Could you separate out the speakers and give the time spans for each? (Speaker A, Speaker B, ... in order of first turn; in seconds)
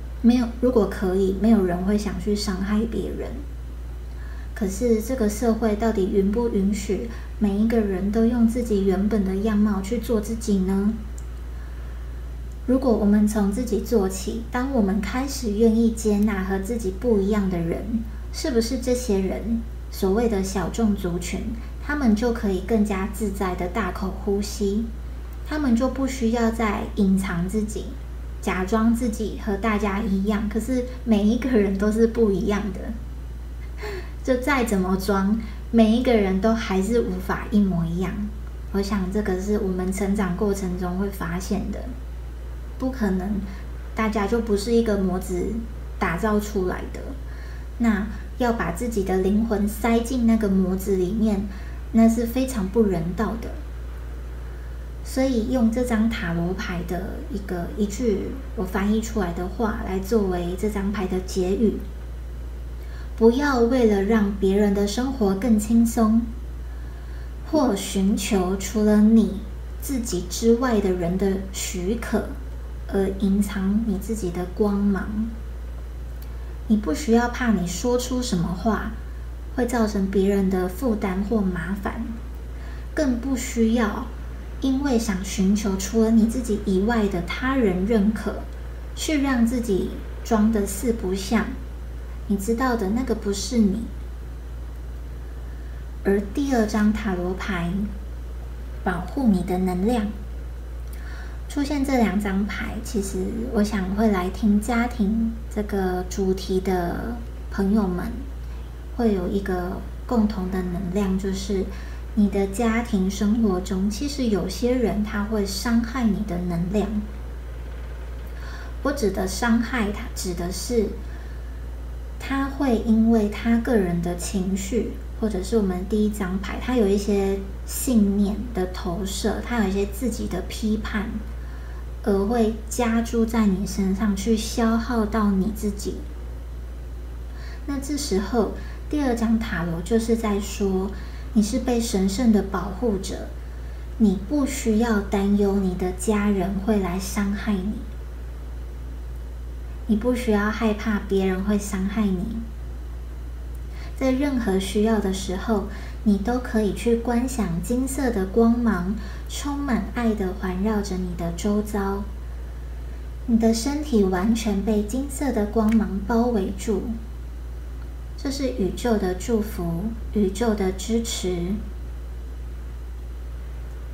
Speaker A: 0.2-3.5, 4.5-11.0, 12.7-24.9, 25.4-33.0, 33.8-41.9, 42.8-47.2, 47.8-53.6, 55.0-61.8, 63.2-66.3, 67.5-72.4, 72.9-75.3, 76.7-79.0, 79.5-82.2, 83.0-84.1, 84.6-91.6, 92.3-93.9, 96.0-97.9, 98.8-100.1, 101.5-108.3, 108.9-117.0, 118.8-121.0, 122.2-131.2, 132.0-136.1, 137.7-143.3, 144.0-147.9, 149.9-152.4, 154.0-162.1, 163.3-166.9, 168.2-171.6